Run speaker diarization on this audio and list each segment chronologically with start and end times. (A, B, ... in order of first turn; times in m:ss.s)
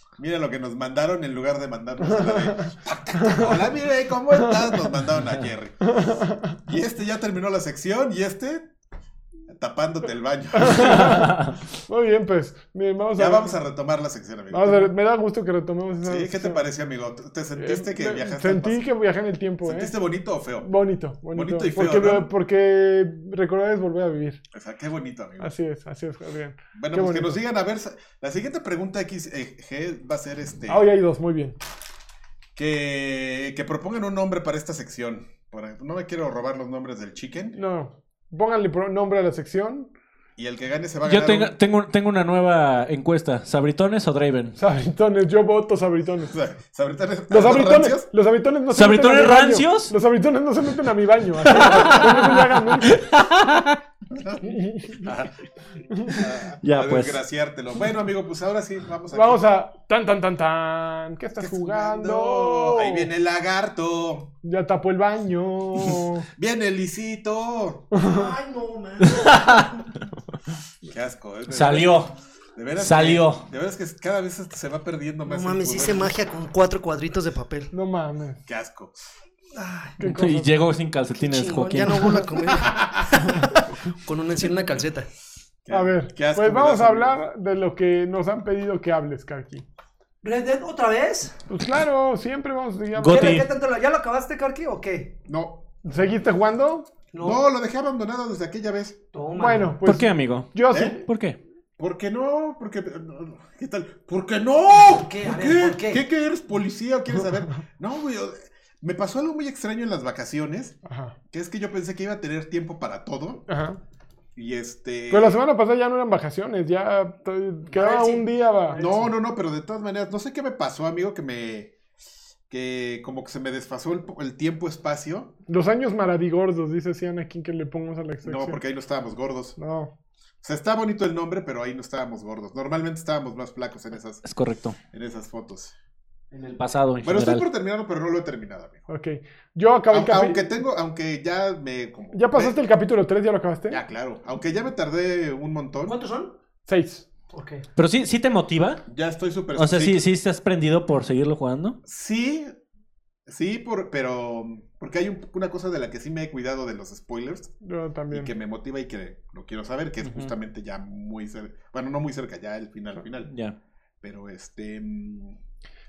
0:00.2-0:05.9 A
0:02.0-0:03.6 B
0:04.3-0:04.7 B
0:05.8-0:06.6 B
0:06.6-0:08.7 A
0:09.5-0:11.3 A
0:10.6-0:13.6 B
0:13.2-0:14.9 A
0:14.5-0:16.6 B
0:16.0-0:18.9 A
0:17.6-0:19.9 B
0:19.6-0:20.7 A
0:20.6-0:24.4 B
0:21.3-0:22.3 A
0:24.5-0:25.5 A
0:25.4-0:27.4 B
0:26.7-0:30.9 A
0:30.7-0:31.6 B
0:32.6-0:37.6 A
0:37.6-0:39.9 B
0:40.4-0:41.5 A
0:41.0-0:44.6 C
0:44.6-0:46.3 B
0:46.3-0:48.1 A
0:47.3-0:53.0 B
0:48.7-0:49.9 C
0:51.4-0:53.8 C
0:54.1-0:55.3 A
0:54.4-0:55.1 B
0:55.9-0:56.2 B
0:56.0-0:59.4 A
0:56.6-0:57.2 C
0:59.1-1:03.1 B
1:01.4-1:04.3 A
1:04.4-1:06.3 B
1:06.4-1:07.9 A
1:07.9-1:09.8 D
1:07.9-1:08.3 B
1:09.0-1:09.8 C
1:10.8-1:16.2 A
1:11.5-1:12.1 C
1:12.8-1:13.4 C
1:15.2-1:17.7 D
1:17.7-1:18.4 B
1:18.4-1:18.9 A
1:19.6-1:19.9 A
1:20.0-1:20.5 B
1:20.0-1:22.4 C
1:21.1-1:25.1 D
1:22.4-1:23.3 A
1:25.6-1:27.2 A
1:25.7-1:29.6 B
1:30.2-1:31.4 D
1:31.5-1:33.4 B
1:32.9-1:33.4 C
1:33.1-1:35.1 D
1:35.3-1:35.8 A
1:35.8-1:36.9 B
1:37.1-1:37.4 D
1:37.2-1:39.0 A
1:39.1-1:39.8 D
1:39.4-1:41.1 B
1:39.8-1:40.5 C
1:40.7-1:41.0 A
1:41.1-1:41.4 C
1:41.8-1:50.8 A
1:44.7-1:46.0 D
1:50.8-1:51.1 B
1:51.3-1:53.4 A
1:53.5-1:53.8 B
1:54.4-1:55.4 A
1:55.1-1:58.8 B
1:57.7-1:59.1 D
1:58.8-2:01.7 A
2:02.5-2:05.3 A
2:05.5-2:08.6 B
2:08.2-2:09.6 A
2:09.6-2:09.9 B
2:10.4-2:14.2 A
2:14.2-2:14.8 C
2:14.9-2:15.7 A
2:16.3-2:17.4 C
2:17.0-2:18.8 A
2:18.9-2:20.5 B
2:19.9-2:22.6 A
2:22.1-2:23.8 B
2:23.7-2:26.0 A
2:25.8-2:26.4 D
2:26.6-2:27.1 B
2:27.3-2:27.6 D
2:27.8-2:28.8 C
2:28.9-2:30.0 A
2:29.6-2:31.8 C
2:31.8-2:32.5 A
2:33.3-2:37.5 A
2:37.6-2:38.3 B
2:38.1-2:43.3 A
2:40.0-2:40.3 C
2:43.3-2:43.6 C
2:44.0-2:45.4 A